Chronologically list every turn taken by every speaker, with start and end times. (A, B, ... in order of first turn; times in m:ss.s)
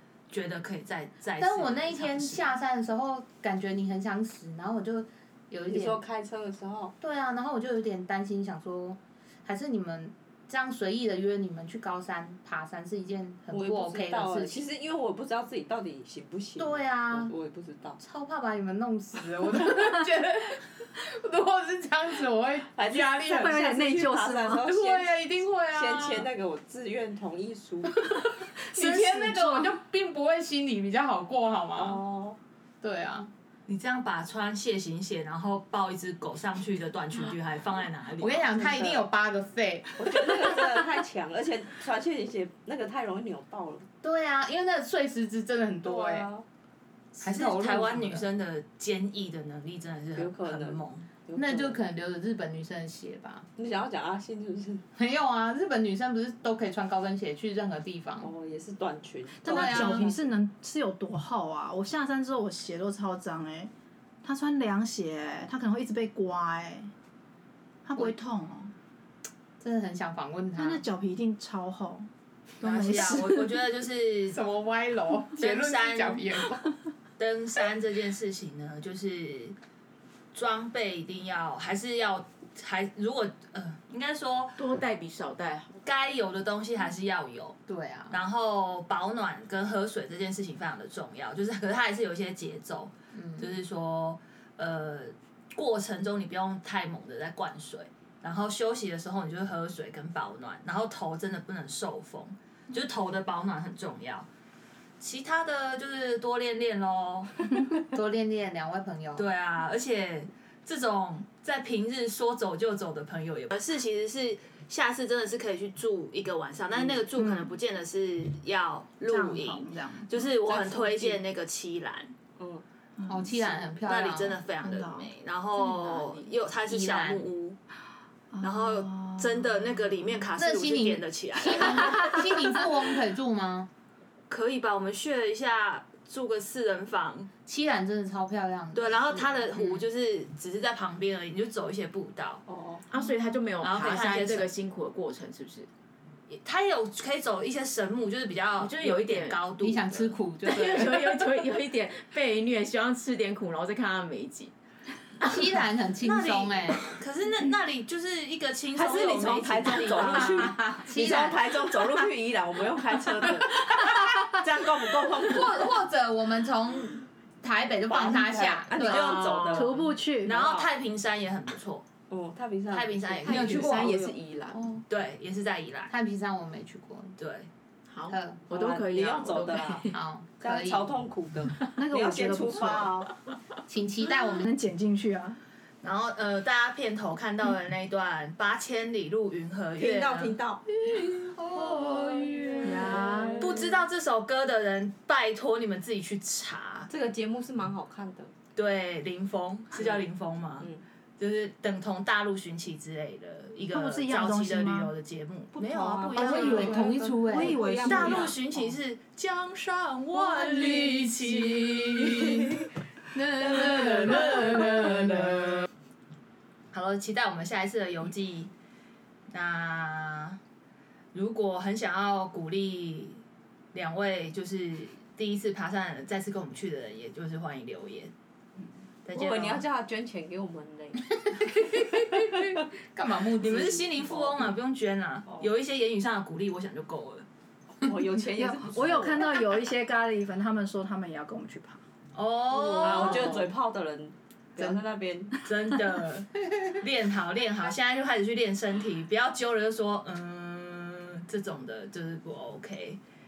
0:00.3-0:02.5 A
0:01.4-0:06.0 B
0:05.7-0:06.9 C
0:07.0-0:14.6 B
0:13.5-0:18.0 C
0:16.6-0:17.3 B
0:18.0-0:23.5 B
0:22.7-0:28.1 C
0:23.1-0:24.6 D
0:24.6-0:26.3 B
0:28.6-0:29.8 D
0:28.7-0:32.0 B
0:31.7-0:32.4 C
0:32.8-0:33.3 B
0:33.7-0:39.0 A
0:38.2-0:40.0 B
0:40.0-0:43.9 C
0:44.0-0:46.3 B
0:45.8-0:46.4 C
0:47.2-0:48.2 B
0:47.2-0:51.0 A
0:50.2-0:51.8 C
0:51.4-0:53.5 B
0:53.6-0:54.8 C
0:55.0-0:58.3 B
0:58.2-1:00.3 C
0:59.4-1:03.7 D
0:59.4-1:00.1 B
1:04.2-1:06.9 D
1:07.8-1:08.7 D
1:09.6-1:10.8 B
1:10.6-1:12.1 D
1:12.6-1:13.6 D
1:12.6-1:14.4 A
1:12.7-1:13.2 B
1:14.3-1:16.6 B
1:15.4-1:16.2 A
1:17.2-1:19.6 A
1:20.3-1:24.6 A
1:24.6-1:25.7 E
1:25.8-1:27.6 A
1:27.7-1:28.1 B
1:28.1-1:44.2 A
1:33.1-1:33.5 B
1:45.0-1:47.6 A
1:47.8-1:49.2 B
1:49.2-2:02.1 A
1:56.7-1:57.0 C
1:57.2-1:57.5 D
1:59.1-2:00.3 D
2:00.4-2:01.2 C
2:02.4-2:02.6 C
2:03.0-2:03.6 D
2:03.1-2:04.4 B
2:03.8-2:07.6 A
2:04.6-2:05.1 D
2:06.7-2:07.2 B
2:08.3-2:09.9 D
2:08.4-2:12.7 A
2:10.4-2:13.7 B
2:14.3-2:17.3 A
2:17.5-2:19.8 B
2:18.7-2:22.4 A
2:22.5-2:22.8 C
2:22.9-2:25.7 E
2:23.6-2:24.5 A
2:26.3-2:30.1 A
2:28.6-2:29.4 E
2:29.6-2:31.2 B
2:30.4-2:34.5 E
2:35.2-2:36.8 B
2:36.0-2:40.8 A
2:38.7-2:45.7 C
2:40.8-2:41.4 B
2:45.2-2:49.3 B
2:47.9-2:50.7 C
2:48.8-2:49.6 A
2:49.5-2:50.3 D
2:50.2-2:51.9 A
2:52.1-2:54.1 C
2:52.7-2:53.9 A
2:53.2-2:54.6 E
2:53.5-2:53.9 B
2:54.5-2:54.8 B
2:54.9-2:55.9 A
2:55.9-2:57.2 B
2:57.2-2:57.5 A
2:57.9-2:59.9 E
2:58.1-2:58.4 B
2:58.5-3:03.1 C
2:59.9-3:00.9 B
3:01.7-3:02.9 D
3:03.7-3:04.5 B
3:04.1-3:05.4 D
3:05.8-3:10.4 A
3:09.8-3:13.7 C
3:12.6-3:13.6 D
3:13.4-3:16.9 A
3:16.9-3:18.3 C
3:18.5-3:27.0 A
3:19.8-3:20.0 C
3:20.6-3:20.8 C
3:23.7-3:24.9 D
3:25.5-3:28.7 C
3:26.1-3:27.6 B
3:27.3-3:28.3 D
3:27.7-3:32.6 A
3:30.3-3:30.9 C
3:33.1-3:35.5 B
3:33.4-3:35.6 A
3:33.5-3:33.8 C
3:36.7-3:38.5 A
3:39.3-3:40.4 A
3:41.1-3:43.2 A
3:43.7-3:48.1 A
3:49.1-3:49.6 A
3:49.1-3:51.1 C
3:51.5-3:52.1 B
3:52.9-3:53.8 B
3:53.4-3:57.2 A
3:54.1-3:54.4 C
3:57.8-3:59.4 C
3:58.4-4:01.8 D
4:02.1-4:03.5 A
4:02.5-4:05.4 C
4:05.4-4:13.0 A